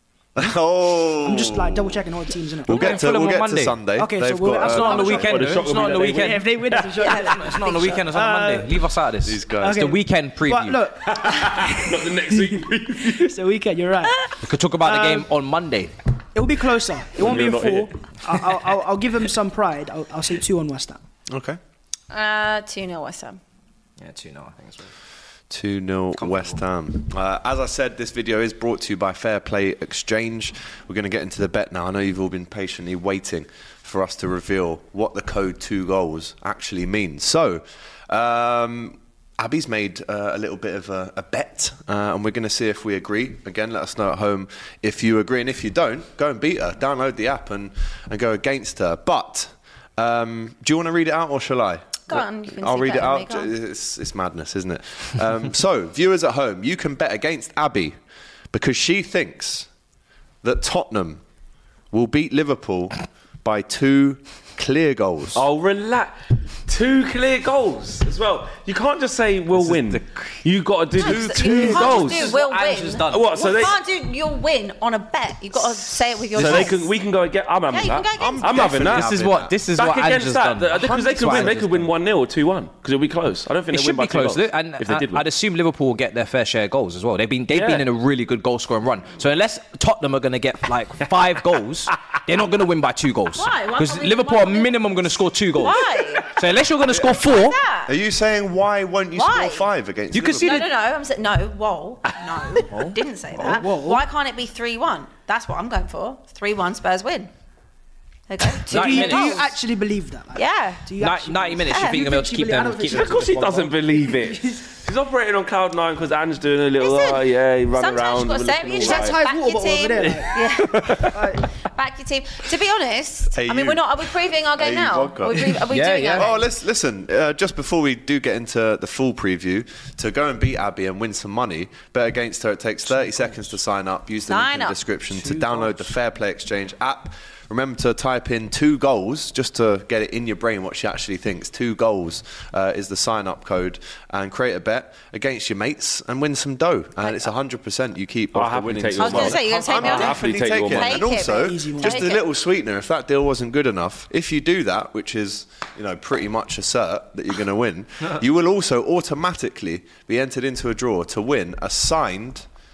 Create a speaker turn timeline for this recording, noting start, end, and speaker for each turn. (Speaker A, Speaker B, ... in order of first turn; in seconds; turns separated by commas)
Speaker A: 0.4-2.0, Speaker B: 1.2-3.0, Speaker A: 2.6-5.3, Speaker C: 2.7-3.8, Speaker B: 4.0-8.9, Speaker C: 4.6-6.5, Speaker D: 5.1-7.0, Speaker E: 7.0-7.5, Speaker C: 7.0-10.8, Speaker A: 9.2-9.8, Speaker B: 9.6-15.3, Speaker D: 11.1-13.3, Speaker C: 14.4-15.9, Speaker B: 16.4-21.0, Speaker D: 17.2-17.9, Speaker A: 21.3-21.6, Speaker E: 22.1-23.4, Speaker C: 24.0-24.9, Speaker A: 25.5-58.0, Speaker C: 26.2-26.6, Speaker E: 52.1-53.5, Speaker A: 58.5-59.7, Speaker A: 60.4-61.2, Speaker A: 61.9-65.4, Speaker D: 65.3-66.1, Speaker D: 66.7-72.4, Speaker C: 69.5-70.4, Speaker E: 70.9-76.9, Speaker A: 71.0-72.1, Speaker C: 71.6-73.7, Speaker D: 73.1-73.8, Speaker D: 76.3-79.1, Speaker C: 76.4-76.7, Speaker E: 77.7-78.8, Speaker A: 78.2-79.5, Speaker C: 78.9-81.9, Speaker D: 79.8-85.2, Speaker A: 80.7-81.6, Speaker C: 83.7-97.6, Speaker D: 87.5-87.9, Speaker E: 93.3-96.4, Speaker A: 96.9-97.2, Speaker E: 97.0-97.9, Speaker A: 97.9-100.7, Speaker E: 99.1-99.7, Speaker C: 100.1-100.7, Speaker E: 100.4-107.3, Speaker C: 102.7-103.5, Speaker B: 103.4-104.0, Speaker E: 108.3-109.5, Speaker B: 108.7-114.6, Speaker C: 108.7-109.5, Speaker E: 110.3-110.9, Speaker C: 111.0-113.7, Speaker E: 111.7-112.1, Speaker D: 112.9-119.2, Speaker E: 116.8-126.4, Speaker B: 118.8-121.5, Speaker D: 120.6-121.2, Speaker A: 123.3-125.6, Speaker C: 125.7-126.3, Speaker A: 126.1-162.5, Speaker E: 134.3-134.8, Speaker D: 148.3-151.1, Speaker E: 149.0-152.2, Speaker B: 151.3-152.1